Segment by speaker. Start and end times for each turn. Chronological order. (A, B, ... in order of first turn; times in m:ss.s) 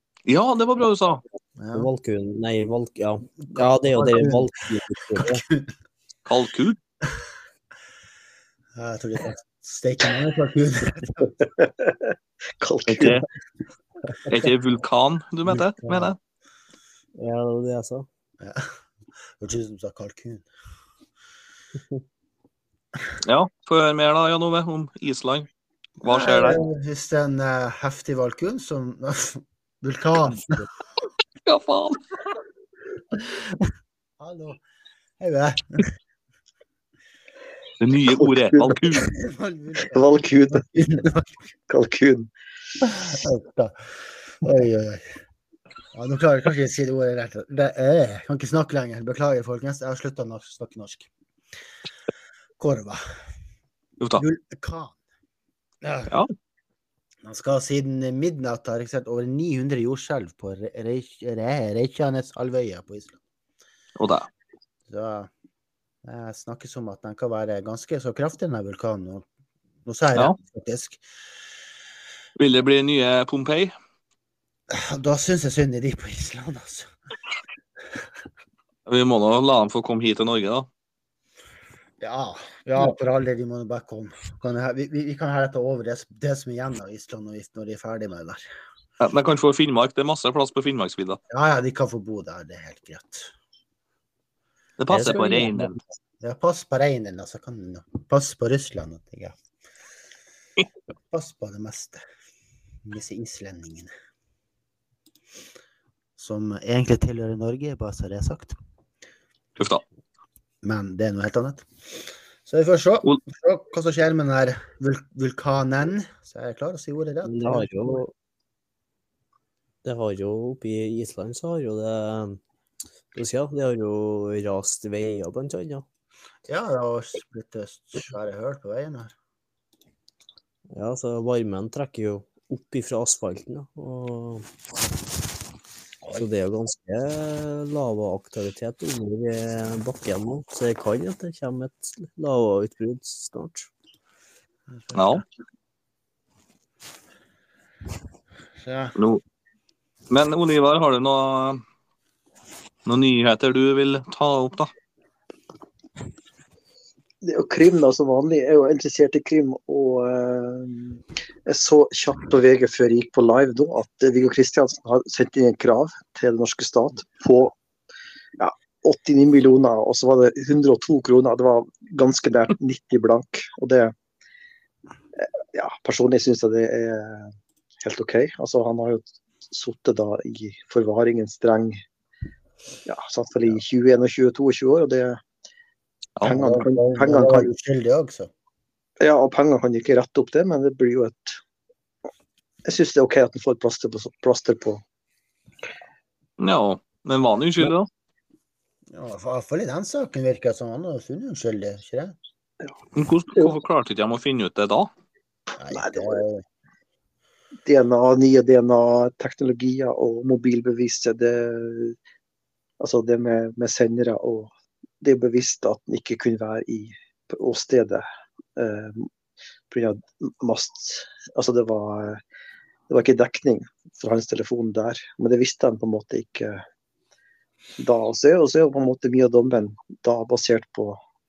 0:00.3-0:01.2 A
0:01.6-0:01.9 B
0:01.7-0:05.4 C
0:03.9-0:04.5 B
0:05.1-0:05.7 B
0:06.2-0:06.8 A
0:08.7-0:11.3 B
0:11.6-0:13.2 D
0:12.9-0:13.3 A
0:14.3-0:16.2 A
0:15.8-0:16.1 B
0:17.2-0:18.1 C
0:18.4-0:18.7 B
0:19.4-0:20.5 B
0:23.2-0:25.5 A
0:26.0-0:26.6 A
0:26.0-0:30.7 B
0:31.4-0:32.0 A
0:34.2-0:34.6 B
0:35.2-0:35.9 B
0:37.8-0:39.1 A
0:38.1-0:39.1 D
0:39.1-0:41.3 B
0:39.8-0:40.6 D
0:41.7-0:42.3 D
0:42.8-0:43.8 B
0:44.3-0:45.1 B
0:45.9-0:51.1 B
0:52.6-0:53.0 B
0:54.0-0:54.2 A
0:54.2-0:55.0 B
0:55.8-0:56.1 B
0:57.2-1:03.2 B
1:04.0-1:04.3 A
1:04.9-1:05.3 B
1:06.0-1:09.3 B
1:09.8-1:11.0 B
1:12.4-1:13.7 A
1:14.7-1:16.9 B
1:18.8-1:20.7 A
1:22.0-1:28.4 B
1:29.0-1:31.2 A
1:31.3-1:33.3 B
1:34.8-1:35.7 A
1:34.9-1:35.8 C
1:36.2-1:39.3 B
1:41.1-1:42.0 B
1:42.8-1:43.9 B
1:46.2-1:48.6 B
1:49.6-1:49.8 A
1:50.6-1:51.7 B
1:52.4-1:57.7 B
1:57.2-1:58.1 C
1:59.8-2:02.4 C
2:03.1-2:05.8 C
2:06.5-2:09.1 B
2:10.7-2:14.5 C
2:16.2-2:23.7 C
2:24.7-2:25.2 B
2:24.9-2:25.2 A
2:28.6-2:28.9 B
2:29.0-2:29.2 A
2:30.1-2:31.6 A
2:32.8-2:34.7 A
2:37.2-2:47.5 D
2:48.4-2:53.9 D
2:55.2-3:01.8 D
3:02.8-3:05.2 D
3:06.2-3:07.5 D
3:06.2-3:08.3 B
3:09.0-3:11.4 D
3:12.6-3:14.8 D
3:16.4-3:17.9 A
3:18.9-3:22.2 B
3:23.0-3:24.9 A
3:25.6-3:26.4 B
3:25.7-3:26.2 D
3:27.6-3:32.0 D
3:32.8-3:38.0 D
3:38.6-3:39.1 D
3:39.7-3:42.2 D
3:42.9-3:46.6 D
3:47.8-3:51.0 D